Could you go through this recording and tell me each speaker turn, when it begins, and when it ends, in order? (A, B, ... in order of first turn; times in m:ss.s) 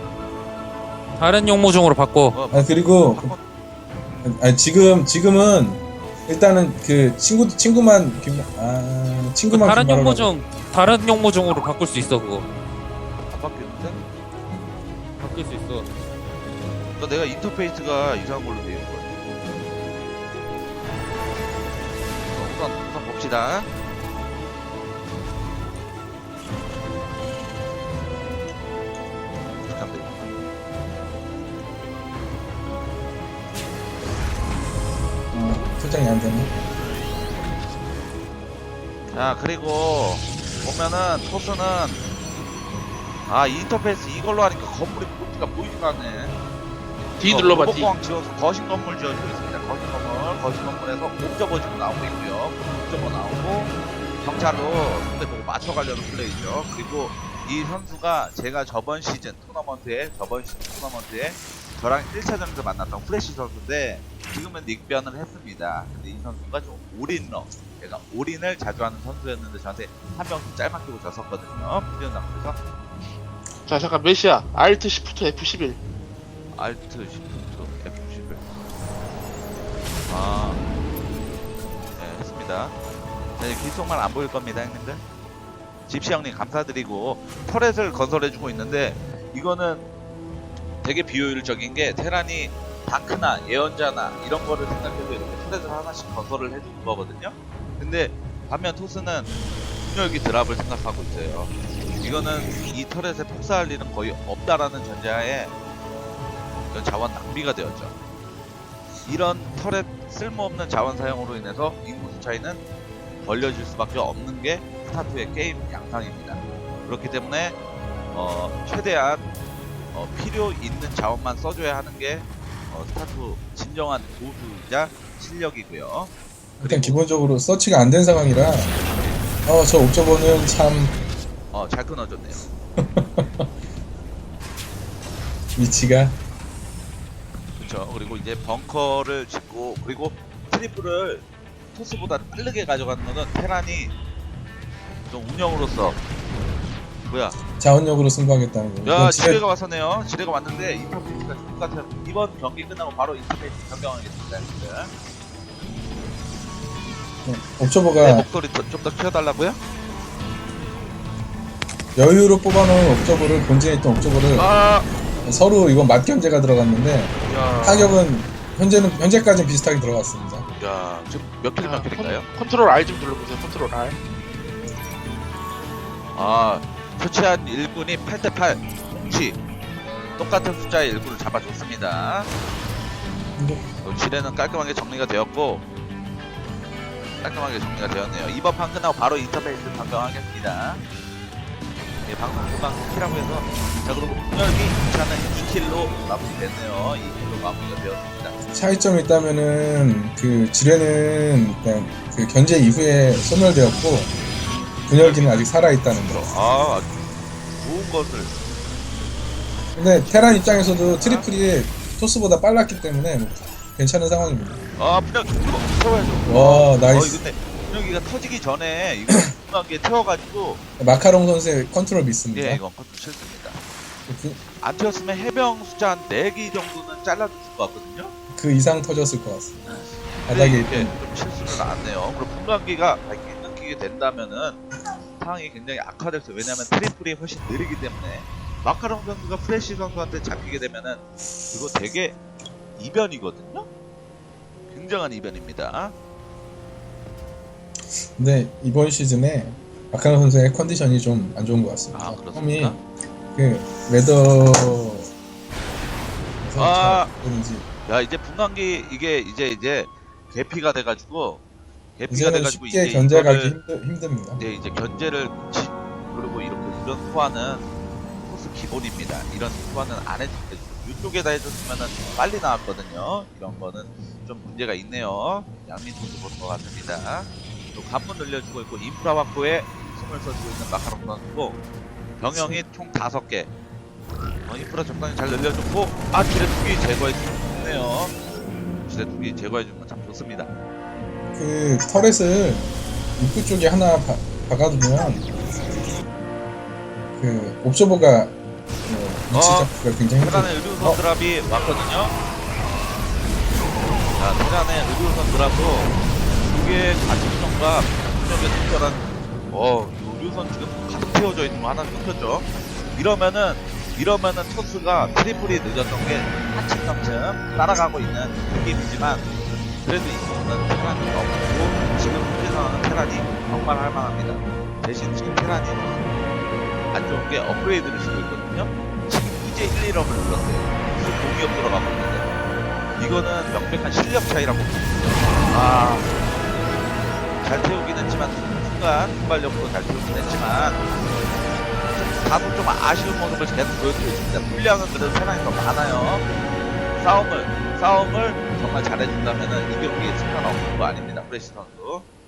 0:01.2-0:02.4 A
0:02.3-0:03.4 B
0:02.5-0:03.3 C
0:04.2-0:10.3 C
0:09.5-0:12.5 A
0:13.3-0:14.0 B
0:15.2-0:15.9 A
0:17.0-0:19.1 B
0:22.3-0:23.7 B
0:29.7-0:30.1 B
0:35.3-0:36.5 C
0:39.1-0:42.0 B
0:43.3-0:46.3 B
0:47.2-0:47.9 D
0:47.3-1:12.6 B
1:13.7-1:15.8 D
1:16.5-1:18.4 B
1:20.1-1:20.6 B
1:22.0-1:22.8 B
1:23.4-1:25.0 B
1:25.9-1:29.8 B
1:30.8-1:39.3 B
1:39.9-1:45.5 B
1:46.7-1:47.9 B
1:49.0-1:52.6 B
1:53.2-1:57.6 B
1:58.1-1:59.2 B
1:59.9-2:07.0 B
2:06.6-2:08.7 C
2:09.4-2:11.0 C
2:11.5-2:12.4 B
2:12.8-2:13.5 C
2:15.6-2:16.2 C
2:17.6-2:23.9 B
2:25.1-2:26.0 B
2:27.1-2:27.4 B
2:27.6-2:29.4 C
2:28.8-2:34.9 B
2:37.2-2:38.3 C
2:38.0-2:39.6 B
2:42.0-2:44.5 C
2:44.3-2:44.9 B
2:45.2-2:50.4 C
2:47.3-2:47.9 B
2:50.6-2:52.2 B
2:51.6-2:54.0 D
2:56.1-2:59.4 B
3:00.2-3:02.3 B
3:03.4-3:03.6 C
3:03.8-3:05.6 B
3:07.2-3:10.8 B
3:12.0-3:18.4 B
3:18.5-3:24.1 C
3:24.9-3:26.3 C
3:25.0-3:27.0 B
3:27.6-3:28.3 B
3:29.8-3:34.6 C
3:30.1-3:31.2 B
3:34.8-3:40.6 B
3:36.2-3:37.2 C
3:40.8-3:42.6 C
3:42.3-3:43.6 B
3:44.1-3:44.4 C
3:44.6-3:48.1 B
3:48.3-3:49.6 C
3:49.7-3:54.6 B
3:50.3-3:50.9 C
3:55.2-4:02.2 B
4:02.8-4:03.7 B
4:04.7-4:05.9 B
4:08.2-4:12.8 C
4:11.9-4:12.8 B
4:13.3-4:15.1 C
4:16.4-4:17.7 C
4:16.6-4:17.1 B
4:17.8-4:21.4 B
4:22.0-4:23.6 B
4:22.1-4:24.4 C
4:24.4-4:27.6 B
4:28.2-4:41.6 B
4:42.2-4:43.5 B
4:42.3-4:42.6 C
4:44.4-4:48.1 B
4:48.9-4:50.5 B
4:51.3-4:55.2 C
4:57.2-4:58.3 C
4:58.9-5:01.0 C
4:59.3-5:02.1 B
5:04.2-5:05.9 B
5:06.5-5:19.2 B
5:19.8-5:26.0 B
5:26.9-5:32.3 B
5:33.0-5:36.1 B
5:37.4-5:40.8 B
5:41.9-5:46.2 B
5:47.0-5:52.0 B